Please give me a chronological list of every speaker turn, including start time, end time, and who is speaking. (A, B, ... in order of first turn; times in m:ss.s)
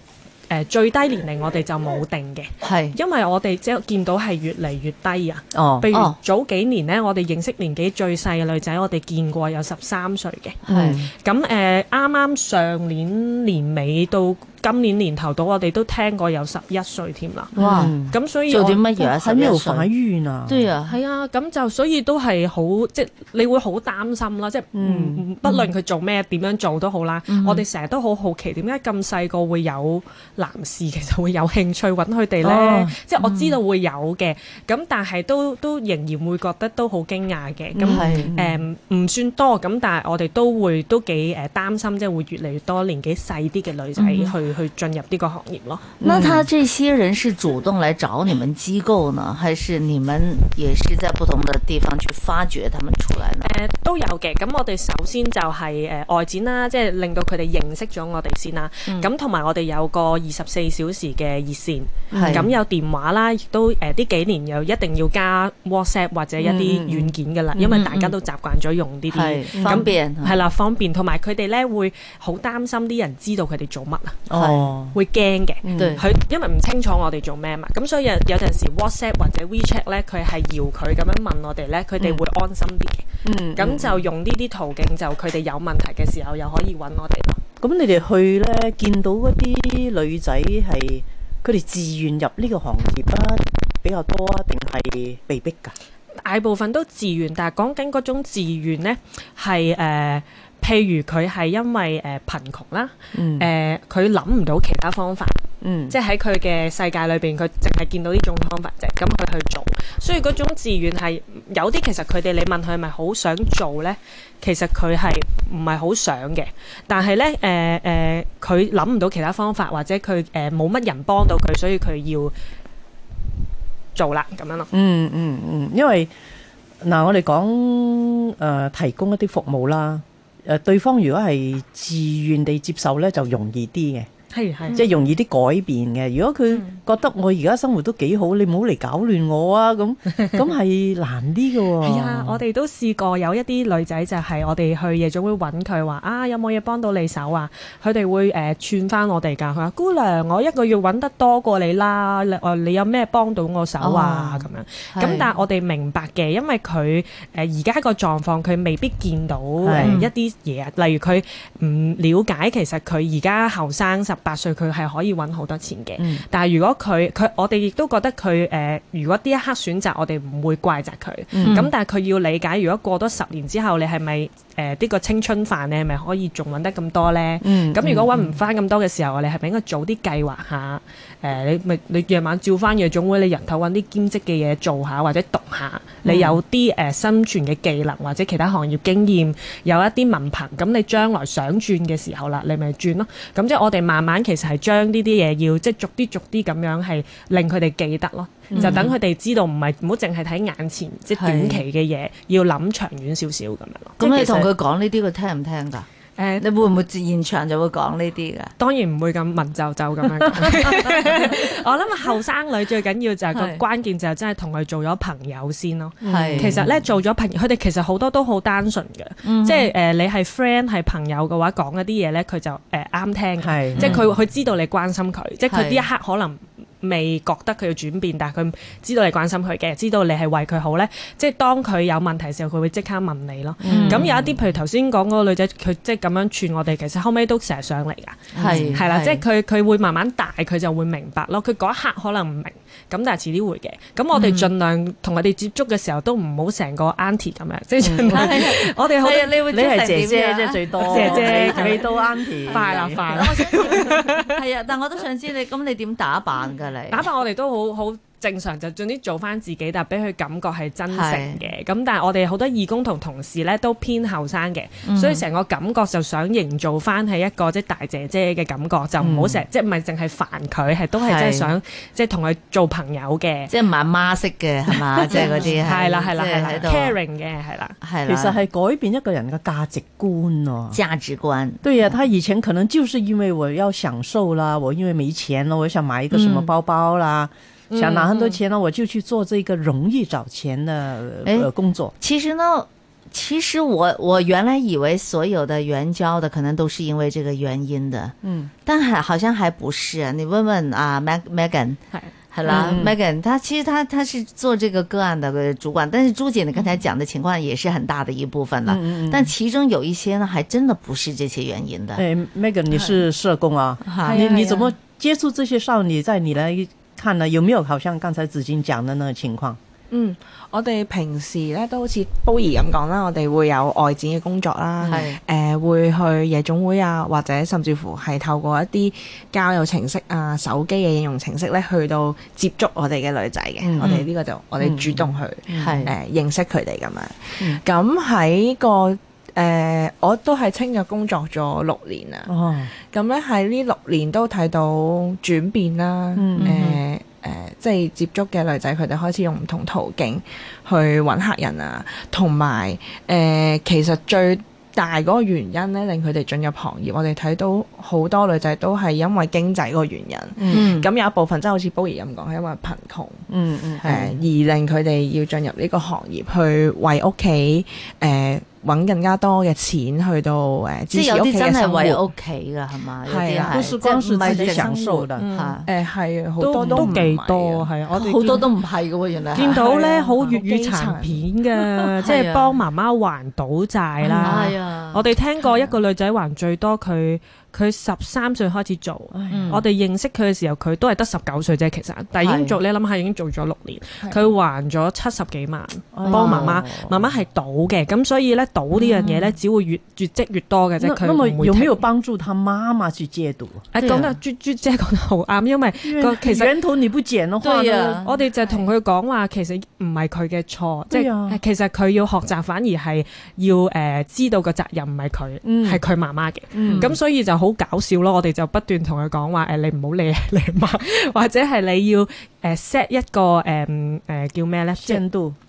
0:00.5-0:18.9 A
0:02.6-0:03.0 B
0:05.5-0:05.9 C
0:10.7-0:11.0 B
0:10.7-0:11.1 C
0:17.6-0:17.9 B
0:17.6-0:18.2 C
0:18.5-0:19.9 B
0:18.9-0:20.7 C
0:20.5-0:21.0 B
0:20.8-0:45.8 A
0:24.7-0:25.3 C
0:25.4-0:25.7 B
0:27.3-0:27.6 B
0:32.4-0:33.0 C
0:33.2-0:33.6 B
0:37.8-0:38.3 B
0:37.9-0:38.6 C
0:44.0-0:44.3 B
0:46.0-0:46.5 C
0:46.0-0:53.5 B
0:53.4-1:14.3 A
1:02.1-1:02.5 C
1:02.1-1:02.4 B
1:06.4-1:07.7 C
1:07.6-1:08.1 B
1:09.1-1:10.4 B
1:09.5-1:09.9 C
1:14.3-1:15.0 C
1:14.9-1:27.4 A
1:15.6-1:16.0 C
1:15.8-1:16.0 B
1:23.2-1:24.0 C
1:27.6-1:35.7 C
1:36.2-2:02.3 A
1:43.1-1:43.5 C
1:45.6-1:46.0 C
2:03.9-2:04.7 A
2:04.7-2:06.1 C
2:06.8-2:14.1 C
2:14.3-2:14.8 A
2:14.7-2:22.4 C
2:21.8-3:24.0 A
2:33.8-2:35.3 B
2:39.6-2:40.1 C
2:39.8-2:40.1 B
2:46.0-2:46.2 C
2:51.3-2:51.7 C
2:57.4-2:58.2 C
3:06.0-3:06.4 C
3:18.5-3:18.9 B
3:18.6-3:18.8 C
3:21.1-3:21.6 B
3:24.0-3:25.9 B
3:24.0-3:24.5 C
3:26.2-3:26.4 A
3:26.4-3:28.5 B
3:28.6-4:09.4 A
3:30.4-3:31.1 B
3:33.3-3:33.6 B
3:36.0-3:36.8 C
3:36.0-3:36.6 B
3:39.2-3:39.7 B
3:43.4-3:43.9 C
3:43.8-3:44.0 B
3:45.5-3:45.8 B
3:53.6-3:54.1 C
3:53.7-3:54.1 B
3:58.3-3:59.2 B
3:58.4-3:58.8 C
4:04.1-4:04.5 B
4:07.8-4:08.3 C
4:08.1-4:17.1 B
4:09.5-4:13.2 C
4:10.8-4:11.9 A
4:12.4-4:14.3 A
4:16.9-4:33.5 A
4:20.9-4:21.4 B
4:24.8-4:25.2 B
4:29.0-4:29.4 C
4:31.0-4:31.5 B
4:33.5-4:37.0 B
4:35.0-4:37.8 A
4:35.2-4:35.5 C
4:37.8-4:38.4 B
4:38.0-4:40.8 C
4:40.7-4:41.9 B
4:41.6-4:51.9 C
4:46.1-4:46.5 B
4:47.7-4:48.4 A
4:51.2-4:58.1 B
4:58.2-4:58.5 C
4:58.6-5:12.0 B
5:02.4-5:03.0 C
5:08.6-5:09.3 C
5:12.0-5:19.6 C
5:12.7-5:13.1 D
5:13.8-5:14.3 B
5:14.0-5:14.7 D
5:19.9-5:42.3 D
5:24.8-5:25.2 B
5:33.6-5:34.0 C
5:33.8-5:34.0 B
5:34.6-5:35.9 C
5:35.6-5:35.9 B
5:42.2-5:42.7 C
5:42.9-6:03.2 D
5:46.2-5:46.7 C
6:00.4-6:00.7 C
6:00.5-6:00.9 B
6:03.3-6:04.0 C
6:03.8-6:04.1 B
6:03.8-6:12.0 D
6:10.9-6:15.6 B
6:13.0-6:13.6 D
6:13.5-6:15.2 C
6:15.2-6:15.5 A
6:15.6-6:17.7 D
6:16.4-6:18.5 A
6:16.6-6:17.0 B
6:17.9-6:19.6 B
6:19.3-6:41.9 A
6:19.5-6:21.2 D
6:22.0-6:22.6 B
6:24.2-6:25.1 B
6:29.1-6:29.6 C
6:29.3-6:29.6 B
6:32.2-6:32.6 B
6:35.9-6:36.6 C
6:36.1-6:36.8 B
6:38.7-6:39.4 B
6:40.8-6:44.2 C
6:43.7-6:46.5 A
6:45.8-6:48.0 C
6:47.4-6:48.6 B
6:48.0-7:05.0 A
6:50.9-6:51.4 C
6:55.4-6:55.8 C
6:56.5-6:57.0 C
6:56.6-6:57.0 B
7:04.8-7:05.4 C